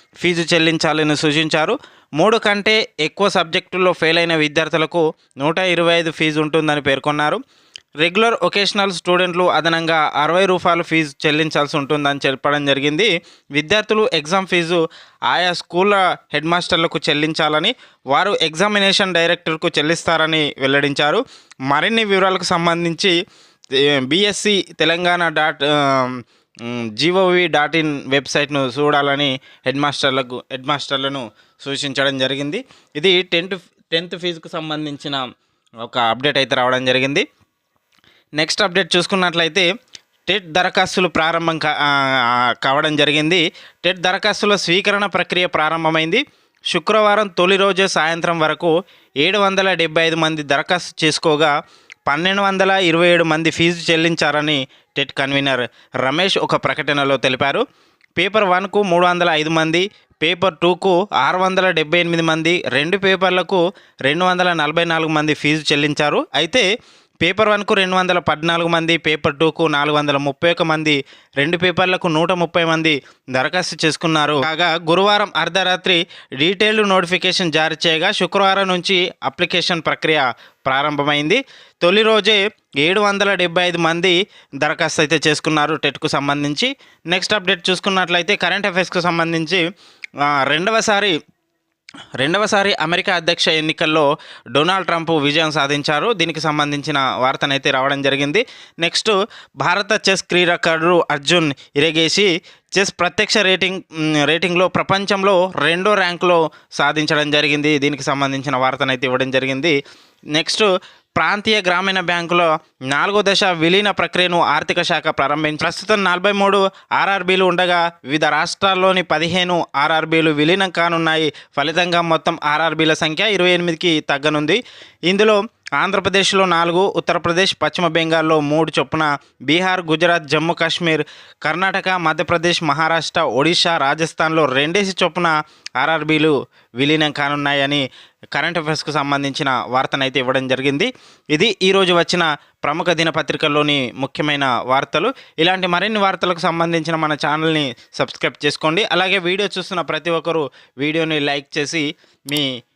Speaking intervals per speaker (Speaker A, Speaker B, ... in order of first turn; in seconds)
Speaker A: 0.2-7.4, 8.0-23.1, 23.8-35.2, 35.8-37.2, 38.4-39.7, 40.3-51.5, 52.1-57.6, 58.2-66.7, 67.2-89.6, 90.2-91.2, 92.2-109.8, 110.3-137.8, 138.3-152.5